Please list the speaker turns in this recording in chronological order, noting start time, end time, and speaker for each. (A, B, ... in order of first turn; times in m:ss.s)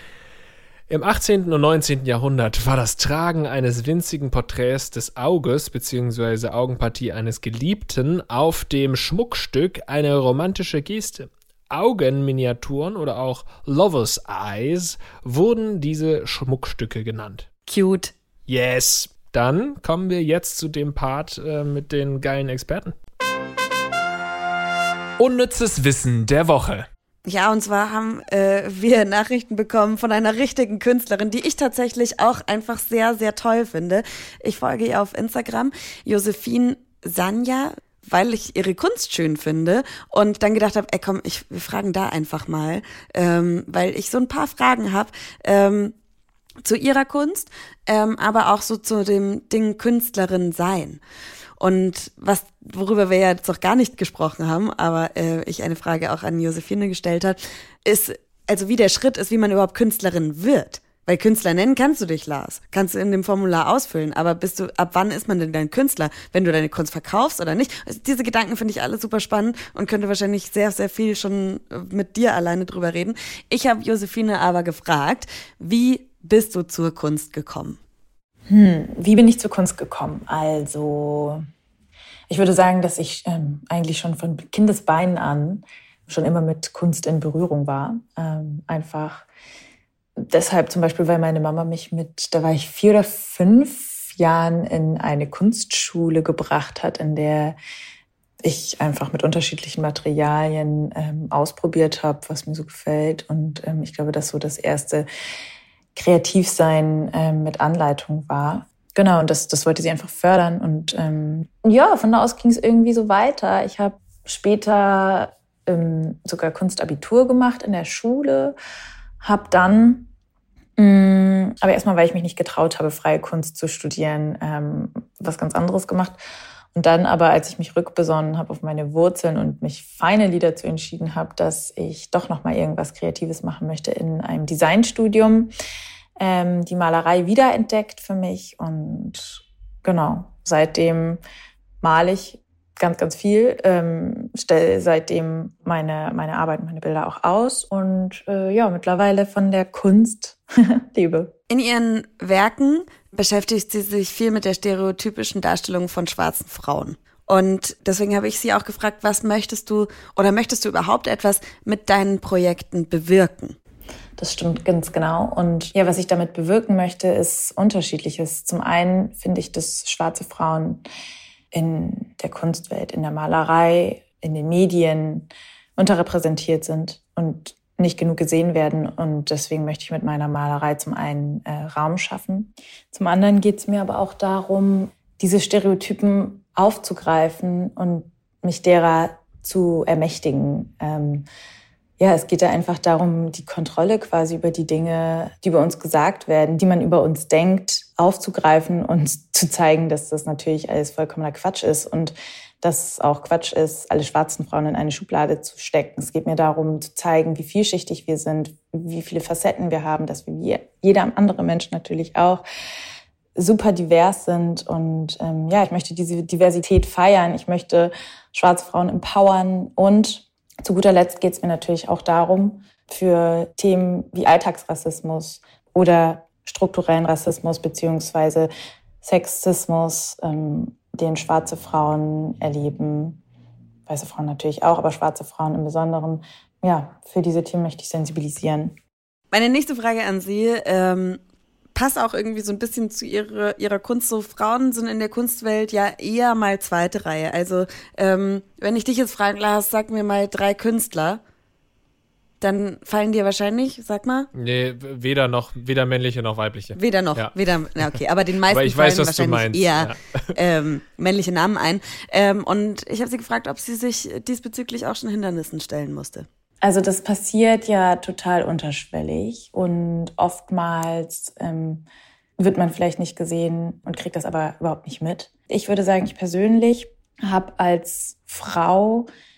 0:00.9-0:17.5 A
0:17.7-0:18.1 B
0:18.5-0:23.0 A
0:25.2-0:26.9 A
0:27.3-0:46.0 B
0:46.6-0:51.0 B
0:51.6-1:17.8 B
1:18.5-1:21.4 C
1:22.3-1:29.3 C
1:30.2-1:37.6 C
1:38.4-1:45.1 C
1:46.0-1:58.6 C
1:59.2-2:00.1 C
2:00.8-2:06.2 C
2:06.7-2:15.5 C
2:16.2-2:21.2 C
2:21.8-2:31.3 C
2:31.5-2:43.6 B
2:44.2-2:50.8 C
2:51.5-3:11.3 C
3:12.0-3:32.4 C
3:33.4-3:48.5 C
3:49.0-3:53.2 C
3:53.9-3:58.8 C
3:59.3-4:01.2 B
4:01.8-4:11.2 B
4:12.4-4:14.3 B
4:14.3-4:17.3 A
4:16.8-4:26.3 B
4:18.5-4:20.4 A
4:26.6-4:31.8 C
4:32.4-4:39.1 C